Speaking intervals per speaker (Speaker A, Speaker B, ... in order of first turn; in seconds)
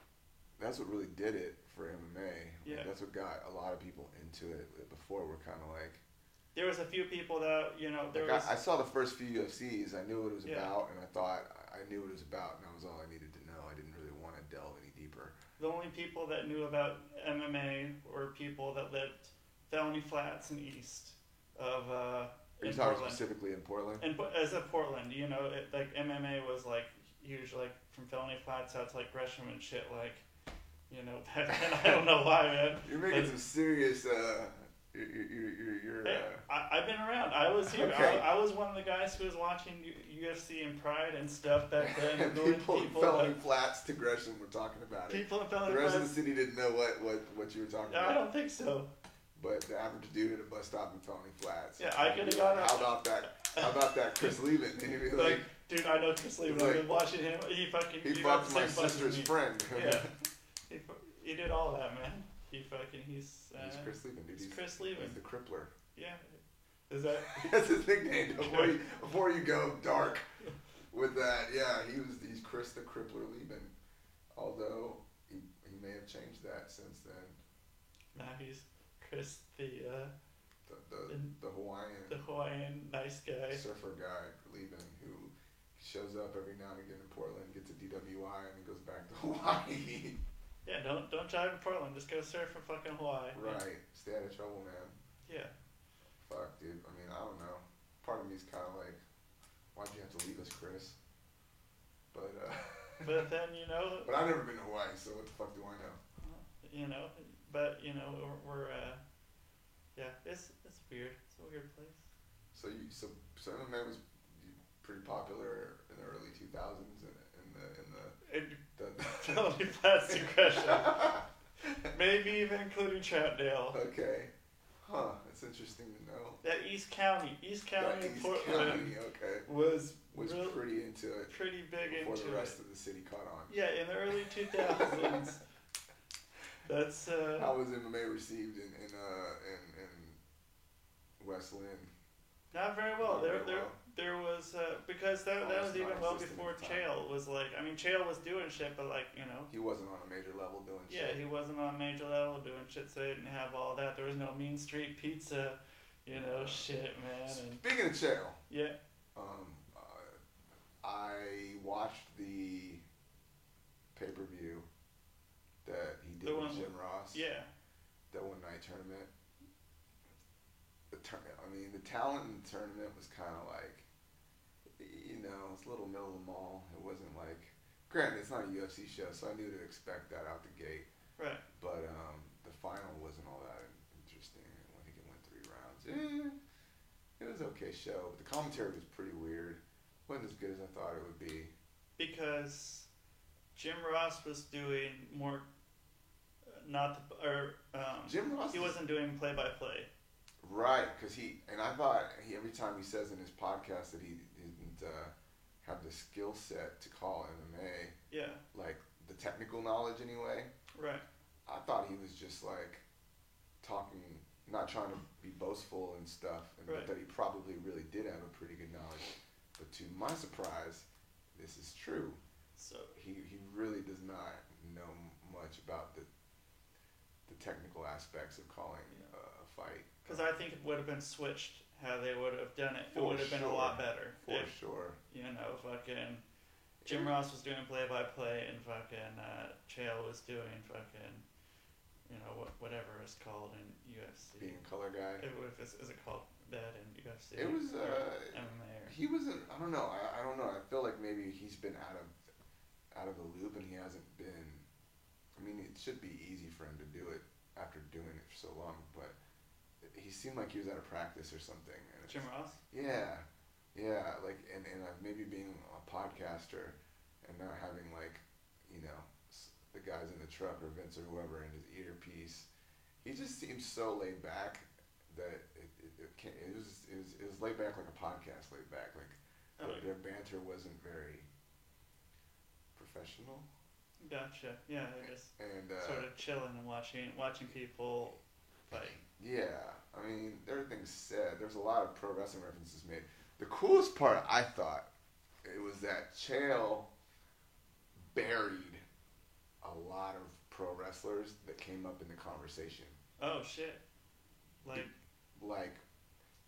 Speaker A: 0.6-6.0, 8.1-15.3, 22.6-24.1, 31.5-32.0, 32.8-36.4, 37.6-38.3, 41.8-48.2, 49.3-55.5, 56.4-57.0, 58.0-60.1, 63.5-65.7, 67.2-70.3, 70.9-73.7, 74.3-77.4, 80.7-82.2, 83.5-90.2, 93.3-95.0, 96.2-99.0, 99.7-101.0, 102.1-103.3, 104.0-106.0, 112.5-118.2, 118.7-119.5, 120.1-121.9, 123.7-126.4, 127.8-129.5, 130.1-133.5, 134.5-135.3, 137.3-140.2, 141.2-141.9, 143.0-143.8, 145.4-146.8, 149.5-151.2, 156.1-156.7, 157.3-158.4, 159.1-160.2, 160.8-162.8, 163.9-164.7, 165.6-167.2, 168.1-169.1, 170.9-173.9, 174.8-180.9, 181.6-186.4, 187.2-191.5, 198.1-198.8, 200.4-208.0, 208.5-210.5, 211.4-212.8, 213.6-222.2, 222.9-226.1, 227.3-230.3, 232.9-235.0, 236.8-237.1, 244.4-245.3, 247.3-252.2, 252.9-254.7, 255.3-259.1, 259.8-272.5, 273.0-281.3, 282.7-283.5, 285.3-286.1, 288.7-294.9, 295.4-296.9, 298.1-298.8, 299.6-303.0, 304.7-305.8
Speaker B: 2.6-2.9, 6.5-8.5, 10.4-10.8, 15.6-23.2, 24.0-30.2, 30.9-33.4, 36.0-43.4, 45.1-46.1, 47.9-48.9, 51.8-54.3, 55.1-60.1, 60.7-65.2, 65.9-67.5, 68.4-68.8, 78.1-80.1, 81.1-81.3, 82.1-83.6, 90.6-93.6, 95.2-95.5, 103.0-104.1, 106.2-109.0, 110.0-112.0, 118.2-121.1, 121.9-123.8, 126.4-130.6, 131.3-132.6, 133.5-135.4, 136.7-137.6, 142.5-149.5, 150.9-157.6, 158.5-158.8, 166.2-167.5, 181.2-181.4, 192.0-192.9, 193.5-195.5, 196.5-199.9, 208.1-208.4, 210.7-211.0, 216.7-216.9, 222.6-222.9, 230.0-234.5, 235.1-236.2, 236.8-241.2, 242.1-244.6, 245.2-248.9, 262.1-262.6, 279.6-279.9, 284.0-289.0, 303.2-303.8, 304.6-304.9